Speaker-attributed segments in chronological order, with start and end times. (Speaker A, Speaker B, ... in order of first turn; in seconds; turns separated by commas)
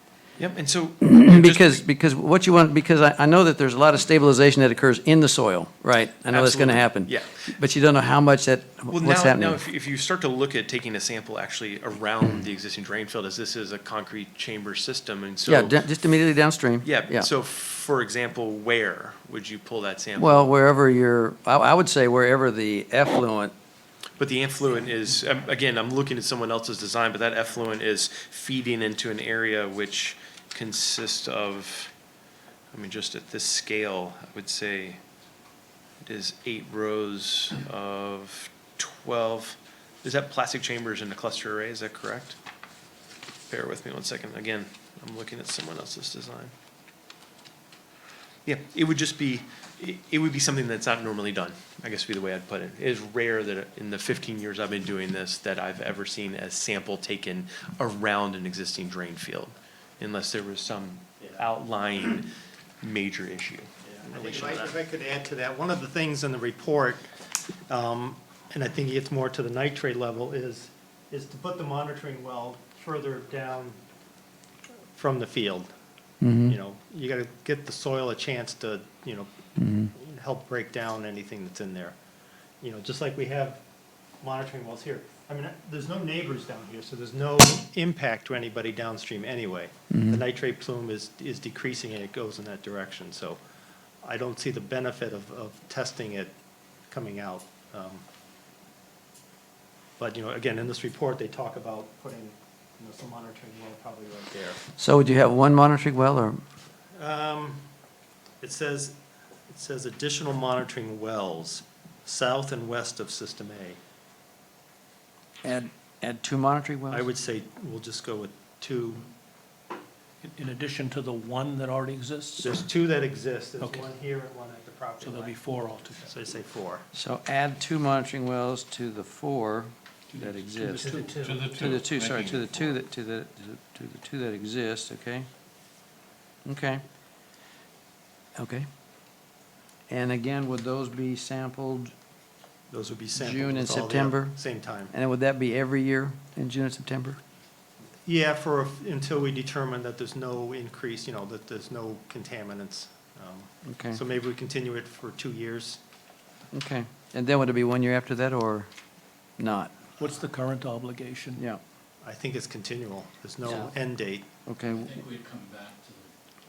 Speaker A: 0.4-1.8, Speaker B: 1.0-9.6, Speaker A: 6.3-7.5, Speaker A: 8.9-15.8, Speaker B: 15.5-17.3, Speaker A: 16.8-20.6, Speaker B: 20.1-23.5, Speaker A: 24.2-31.9, Speaker A: 32.7-35.0, Speaker A: 36.0-42.4, Speaker A: 43.5-46.5, Speaker A: 48.5-62.3, Speaker A: 62.8-64.7, Speaker C: 63.9-67.1, Speaker C: 67.7-73.8, Speaker C: 74.9-75.7, Speaker B: 76.2-76.5, Speaker C: 76.4-79.3, Speaker B: 79.6-79.9, Speaker C: 79.9-82.0, Speaker C: 82.6-83.6, Speaker C: 84.2-93.4, Speaker B: 89.9-90.2, Speaker C: 94.0-96.3, Speaker C: 96.9-98.0, Speaker C: 100.0-104.6, Speaker B: 104.8-106.4, Speaker C: 107.0-107.6, Speaker C: 108.4-109.0, Speaker C: 109.5-113.8, Speaker B: 115.4-117.1, Speaker C: 116.9-119.1, Speaker D: 120.2-122.7, Speaker C: 122.4-125.3, Speaker D: 123.6-123.8, Speaker D: 125.0-126.1, Speaker C: 126.1-126.8, Speaker B: 126.9-135.3, Speaker D: 130.6-131.5, Speaker E: 131.2-132.1, Speaker A: 131.4-132.4, Speaker B: 136.4-136.8, Speaker B: 138.3-138.7, Speaker B: 139.9-141.9, Speaker C: 142.7-144.9, Speaker B: 143.1-144.4, Speaker B: 144.9-147.2, Speaker C: 148.1-155.8, Speaker B: 153.6-154.0, Speaker B: 156.5-158.7, Speaker B: 159.4-159.7, Speaker D: 160.0-161.4, Speaker C: 162.0-164.3, Speaker B: 163.4-163.7, Speaker B: 164.4-165.0, Speaker E: 164.7-166.1